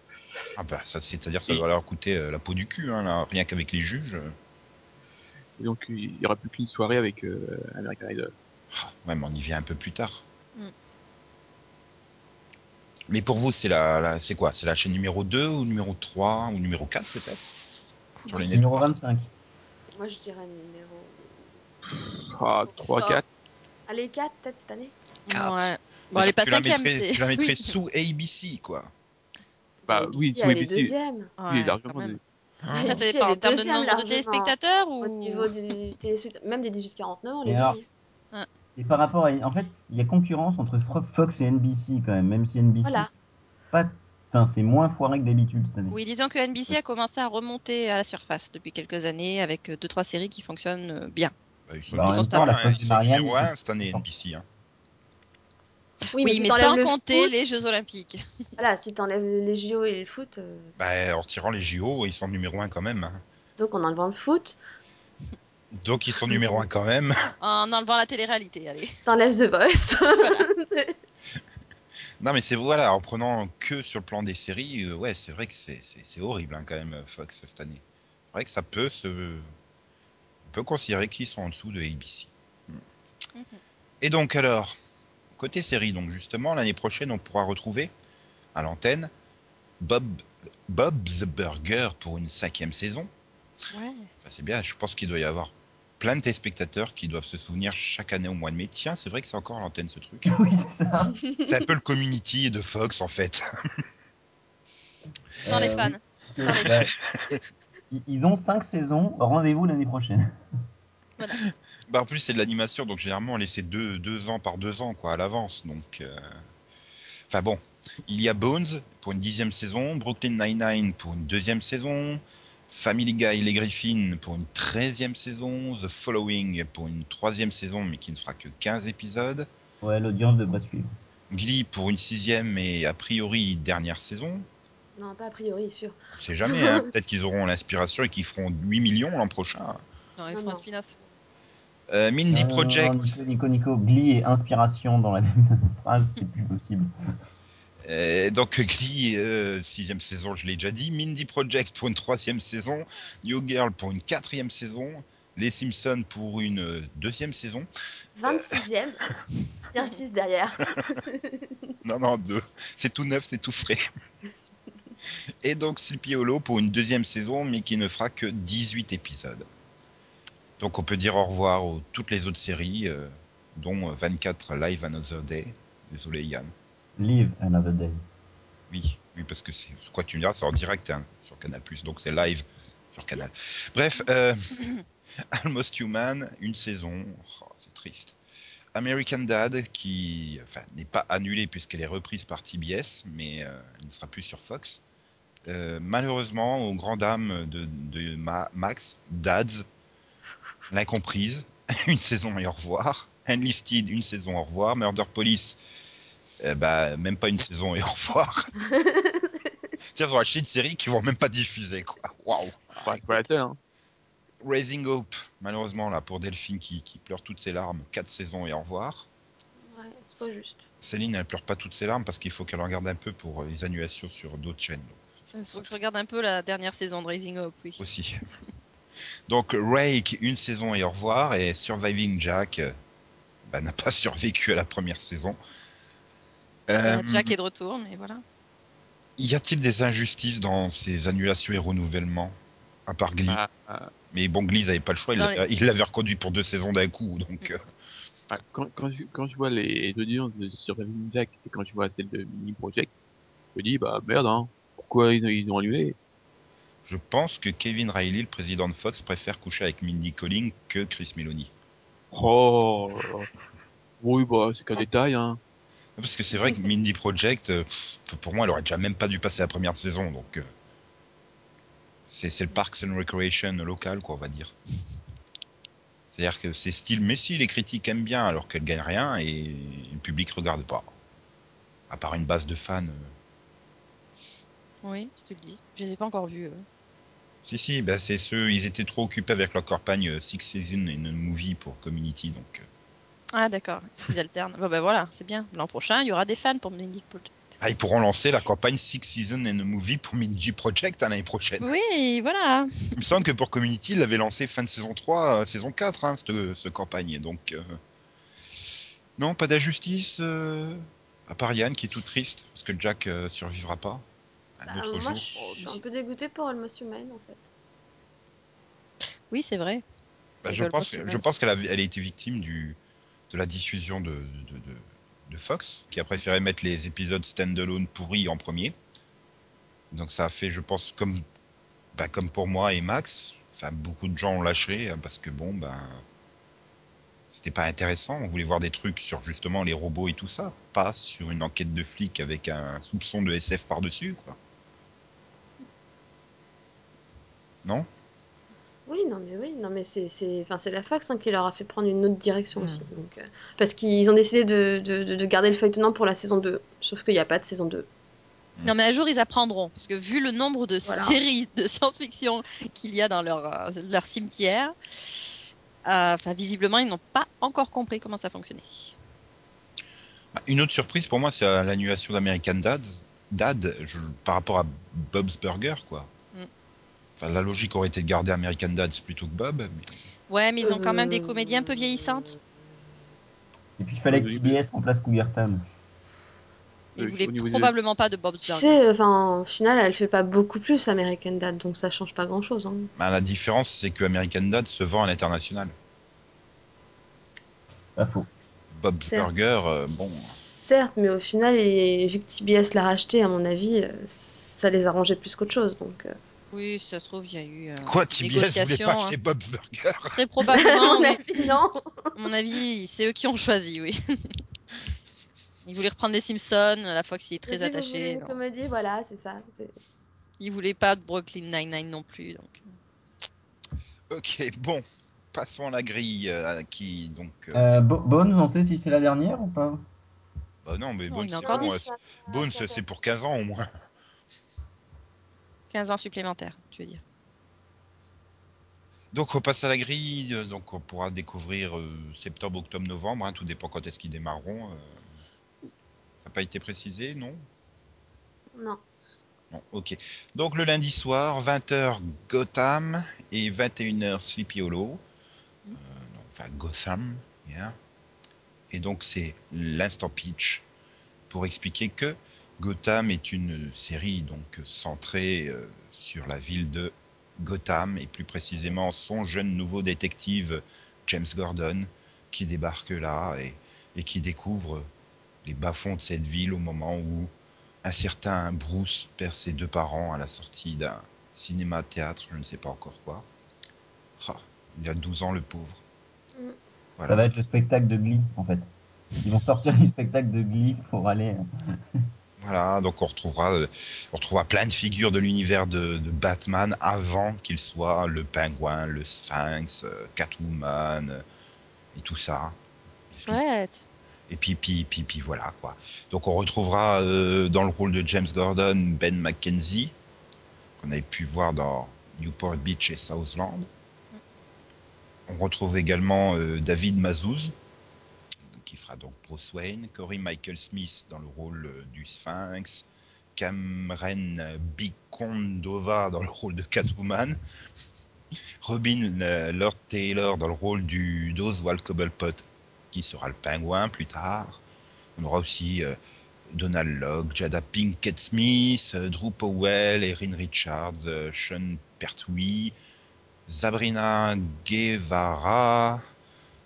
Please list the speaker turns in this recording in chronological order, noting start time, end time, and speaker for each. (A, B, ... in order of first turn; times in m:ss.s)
0:00.6-0:04.3 A
0:05.6-0:08.3 B
0:08.7-0:10.2 A
0:13.1-0:17.6 A
0:18.2-0:18.9 A
0:18.4-0:19.3 C
0:20.0-0:21.5 D
0:21.9-0:23.2 B
0:23.9-0:24.9 D
0:25.3-0:27.7 E
0:25.3-0:28.9 A
0:29.8-0:31.3 D
0:29.9-0:30.9 B
0:31.4-0:32.2 E
0:31.5-0:32.2 B
0:32.6-0:33.0 A
0:32.7-0:37.8 D
0:32.8-0:35.5 E
0:37.4-0:37.8 C
0:38.8-0:43.1 C
0:42.8-0:43.1 D
0:43.7-0:46.0 C
0:45.9-0:51.3 E
0:51.7-0:54.4 A
0:51.9-0:54.0 C
0:52.0-0:52.5 E
0:56.0-0:57.4 D
0:56.0-0:58.2 E
0:58.6-1:00.7 D
1:00.8-1:03.2 A
1:03.6-1:04.6 D
1:05.7-1:07.1 A
1:06.4-1:06.6 D
1:07.4-1:08.9 E
1:09.0-1:11.0 D
1:10.1-1:10.4 E
1:12.2-1:19.5 A
1:20.5-1:22.8 A
1:23.3-1:23.6 E
1:24.0-1:24.7 A
1:25.4-1:27.9 A
1:28.5-1:29.1 A
1:29.8-1:33.1 A
1:33.7-1:34.1 E
1:34.2-1:40.3 A
1:40.2-1:41.2 C
1:41.4-1:43.4 A
1:45.4-1:46.9 C
1:45.5-1:46.8 E
1:47.9-1:50.3 C
1:51.9-1:56.4 A
1:57.3-2:09.5 A
2:09.8-2:10.9 C
2:11.3-2:14.4 A
2:15.0-2:16.0 D
2:16.1-2:19.8 A
2:16.5-2:16.8 D
2:20.2-2:20.9 E
2:20.3-2:20.6 D
2:21.9-2:23.0 A
2:22.3-2:26.9 C
2:27.8-2:37.7 A
2:38.2-2:39.0 D
2:39.7-2:41.7 D
2:41.8-2:43.8 A
2:45.4-2:49.4 A
2:50.6-2:56.5 A
2:57.0-2:58.0 C
2:58.7-3:04.8 A
3:05.3-3:08.2 A
3:08.7-3:14.8 A
3:15.5-3:19.6 A
3:20.7-3:25.6 A
3:26.4-3:28.5 A
3:28.6-3:29.5 D
3:29.9-3:33.1 A
3:32.8-3:33.6 B
3:34.4-3:39.1 A
3:39.7-3:40.6 D
3:40.8-3:45.7 A
3:45.3-3:47.8 E
3:47.8-3:48.2 A
3:49.3-3:52.7 A
3:53.5-3:55.4 A
3:56.7-3:57.3 A
3:56.8-3:58.2 E
3:59.2-4:02.3 A
4:02.9-4:03.4 A
4:03.3-4:03.9 B
4:04.1-4:07.6 A
4:05.2-4:05.4 E
4:08.3-4:12.9 B
4:13.5-4:16.0 B
4:16.8-4:21.5 A
4:22.1-4:23.3 B
4:24.0-4:25.4 B
4:26.0-4:30.5 A
4:32.1-4:34.5 A
4:36.1-4:40.8 A
4:41.9-4:43.1 A
4:44.8-4:46.6 E
4:47.4-4:52.6 A
4:53.3-4:57.3 E
4:57.6-5:01.7 A
5:01.6-5:03.2 E
5:03.0-5:07.8 A
5:09.2-5:14.0 A
5:14.6-5:15.3 A
5:14.7-5:17.5 D
5:15.4-5:15.8 B
5:19.3-5:19.8 E
5:20.4-5:22.8 A
5:20.5-5:21.3 E
5:23.3-5:28.7 A
5:29.9-5:31.2 A
5:31.9-5:36.0 A
5:37.3-5:44.4 A
5:48.9-5:57.9 D
5:58.6-6:04.7 E
6:00.8-6:01.2 D
6:05.8-6:08.9 E
6:10.4-6:16.1 A
6:17.2-6:20.0 A
6:20.3-6:22.3 E
6:20.6-6:21.4 D
6:23.8-6:25.6 C
6:24.1-6:24.6 B
6:27.0-6:27.7 B
6:27.0-6:28.8 E
6:28.4-6:32.9 D
6:33.0-6:35.7 A
6:38.0-6:38.3 C
6:38.7-6:40.4 A
6:40.5-6:46.2 D
6:46.5-6:49.1 E
6:47.8-6:50.2 A
6:50.0-6:51.5 E
6:50.5-6:52.1 D
6:52.2-6:54.4 E
6:55.6-6:58.4 E
6:57.5-6:59.8 D
7:00.4-7:02.7 E
7:04.1-7:07.8 A
7:07.5-7:09.8 C
7:10.6-7:13.6 A
7:11.1-7:11.7 E
7:11.4-7:12.8 D
7:15.7-7:17.0 E
7:19.1-7:24.9 A
7:26.2-7:27.4 A
7:29.5-7:35.0 A
7:35.8-7:37.8 A
7:38.7-7:40.6 A
7:41.3-7:54.8 A
7:55.4-7:57.3 A
7:57.8-8:03.2 A
8:04.2-8:05.8 A
8:07.0-8:07.3 A
8:07.0-8:11.4 C
8:12.4-8:21.2 A
8:21.9-8:22.6 A
8:23.1-8:23.4 A
8:23.2-8:23.8 E
8:24.3-8:29.9 A
8:30.8-8:33.7 A
8:35.3-8:37.5 A
8:38.6-8:42.8 A
8:43.4-8:47.4 A
8:48.6-8:54.6 A
8:55.2-8:56.0 A
8:56.5-9:02.7 A
9:03.5-9:06.0 A